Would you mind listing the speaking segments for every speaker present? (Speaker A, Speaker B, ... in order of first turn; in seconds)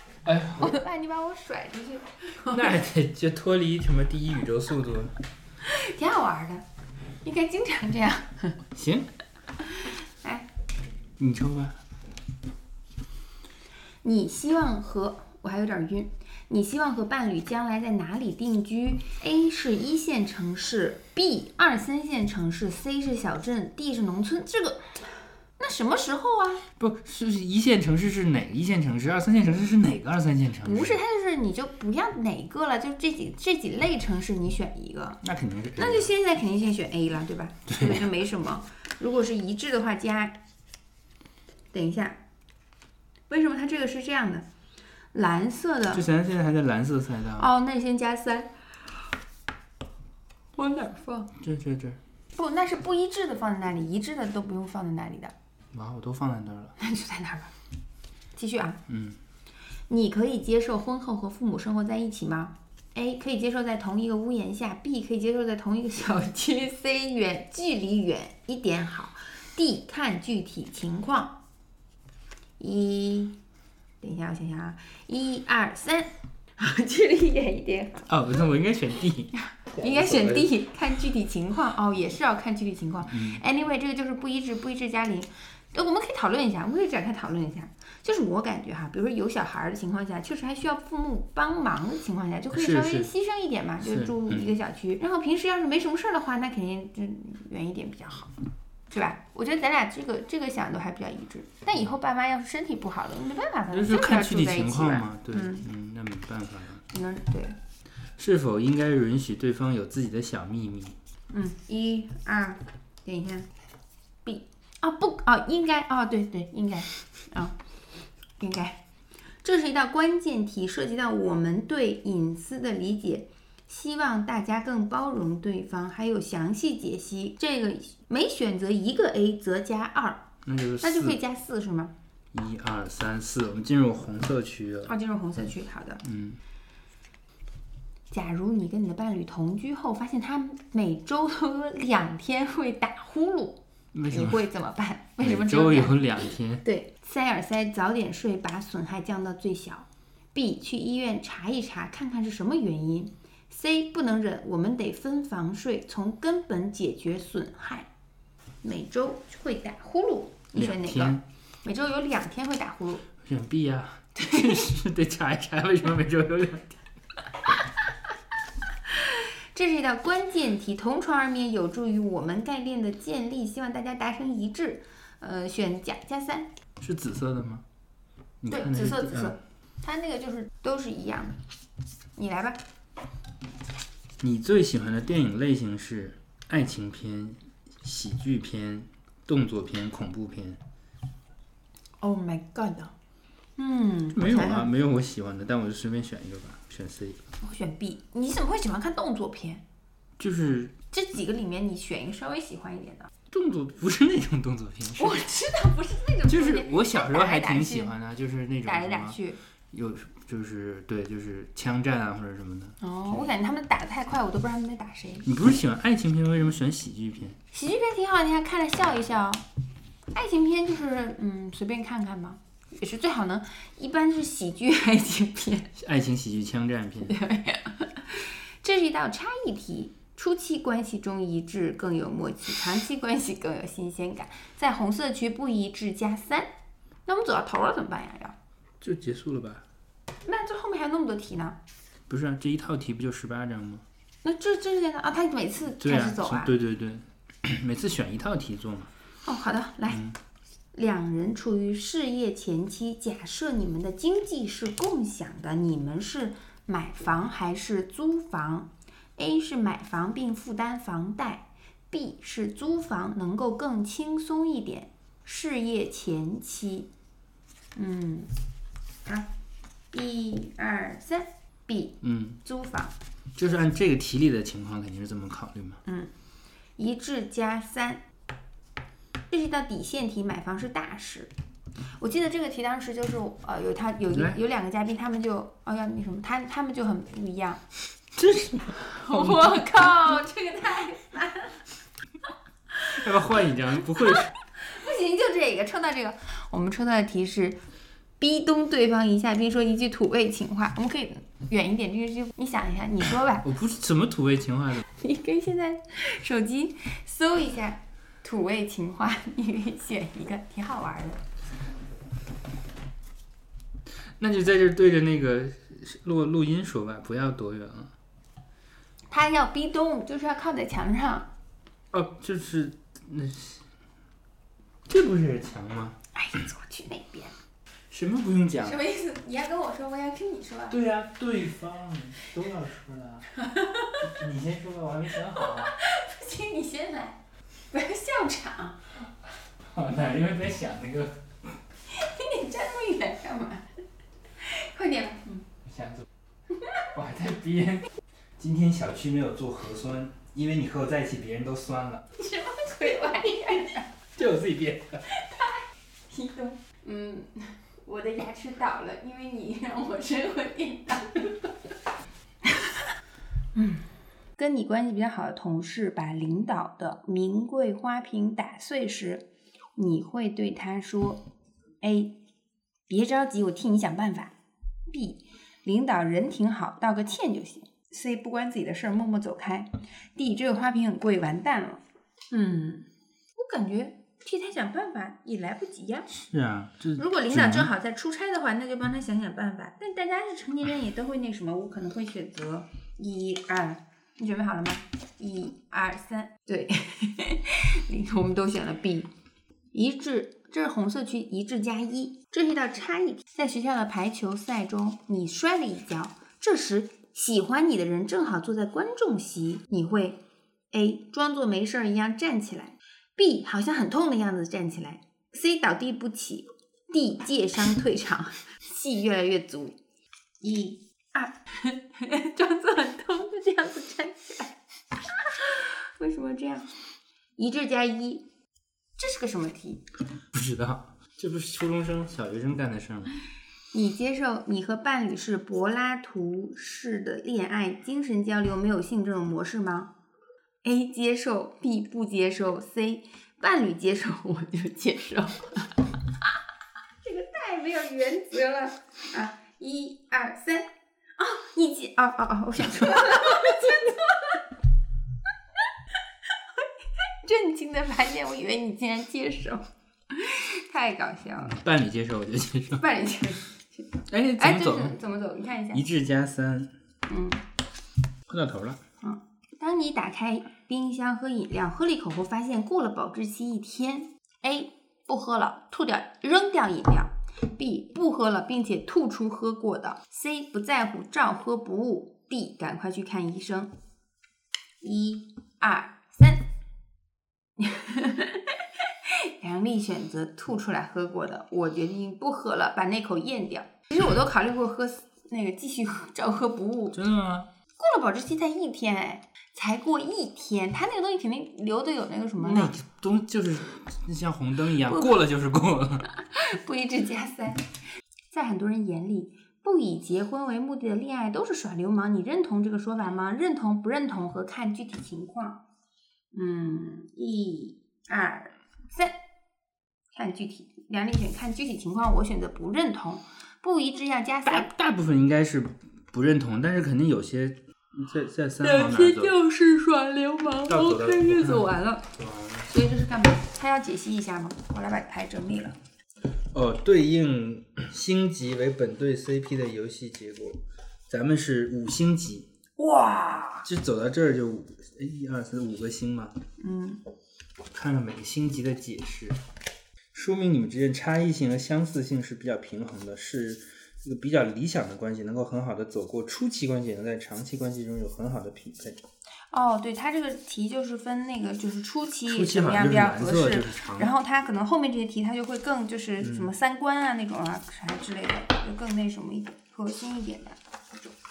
Speaker A: 0.2-0.8, 2.5-5.1, 8.7-9.1, 11.2-11.8, 26.8-31.0, 35.2-36.1, 37.7-38.1, 45.9-47.5, 51.4-52.0, 55.7-56.8, 58.9-59.2, 78.1-80.5, 83.1-83.4, 92.5-93.1, 93.8-94.5, 103.7-106.8, 108.2-111.0, 130.4-131.2, 132.3-134.9, 136.0-136.4, 143.9-144.5, 145.2-146.6, 160.6-161.2, 163.2-166.8, 176.8-177.6, 178.4-179.4, 184.2-190.6, 194.1-197.3, 200.2-200.8, 203.3-205.3, 206.3-209.2, 209.7-212.8, 215.2-217.4, 225.8-227.2, 238.8-239.6, 242.1-243.8, 245.8-248.9, 249.9-250.2, 272.0-272.4, 273.4-275.8, 288.1-289.9, 292.9-294.3, 303.4-304.9, 314.2-317.9, 321.9-323.6, 324.9-326.0, 327.9-328.8, 330.7-333.3, 334.0-335.8, 339.6-341.2, 345.6-346.1, 346.9-352.1, 354.1-355.0, 386.1-387.7, 430.3-433.1, 461.4-462.8, 464.1-465.0, 465.7-466.7, 468.3-468.8, 496.9-497.5, 502.4-506.1, 524.5-529.4, 530.7-532.7, 536.5-542.5, 543.6-546.4, 547.7-549.4, 550.1-559.0, 562.3-564.1, 566.2-566.5
Speaker B: 0.6-2.8, 5.6-6.7, 7.2-8.6, 9.7-10.5, 14.0-26.6, 30.6-35.2, 35.8-40.4, 41.7-42.2, 43.3-44.5, 45.1-46.1, 47.4-48.6, 50.6-51.3, 52.3-55.3, 56.8-57.5, 58.4-58.8, 59.9-71.4, 72.6-73.4, 74.0-78.1, 79.6-98.3, 98.9-105.6, 106.9-107.6, 111.3-113.5, 114.2-117.6, 118.4-118.8, 119.4-130.3, 130.8-131.9, 134.9-136.0, 138.1-157.9, 158.6-163.1, 164.2-164.7, 168.9-176.5, 178.5-181.4, 182.2-182.6, 192.0-192.9, 193.6-194.7, 197.4-199.6, 200.9-203.1, 205.0-207.9, 208.6-209.4, 212.8-215.3, 217.5-219.4, 220.1-225.7, 227.1-236.5, 237.1-238.4, 240.3-241.6, 244.2-246.5, 249.2-250.1, 250.7-266.9, 267.8-268.3, 269.1-269.3, 269.9-272.9, 275.9-276.1, 276.8-278.0, 279.3-281.3, 282.0-287.6, 288.7-291.6, 294.1-297.6, 298.2-303.5, 304.9-311.2, 319.1-321.3, 326.1-327.4, 328.6-330.8, 333.4-334.1, 335.4-337.2, 337.7-338.8, 341.9-343.7, 344.4-345.5, 346.6-346.9, 352.1-353.9, 355.1-361.5, 363.6-371.2, 371.8-372.1, 372.9-374.3, 374.9-381.8, 382.3-386.1, 387.0-399.1, 399.7-410.2, 410.7-419.8, 420.4-424.5, 425.1-426.7, 427.4-428.2, 429.0-429.8, 433.7-439.9, 440.6-445.7, 447.0-454.4, 457.2-461.6, 462.8-465.9, 467.1-467.4, 469.0-483.7, 484.8-486.5, 487.6-497.0, 497.8-502.8, 506.2-507.7, 508.3-515.6, 516.3-519.1, 520.1-524.7, 528.6-532.1, 532.6-535.8, 542.8-543.7, 546.6-547.0, 559.5-571.1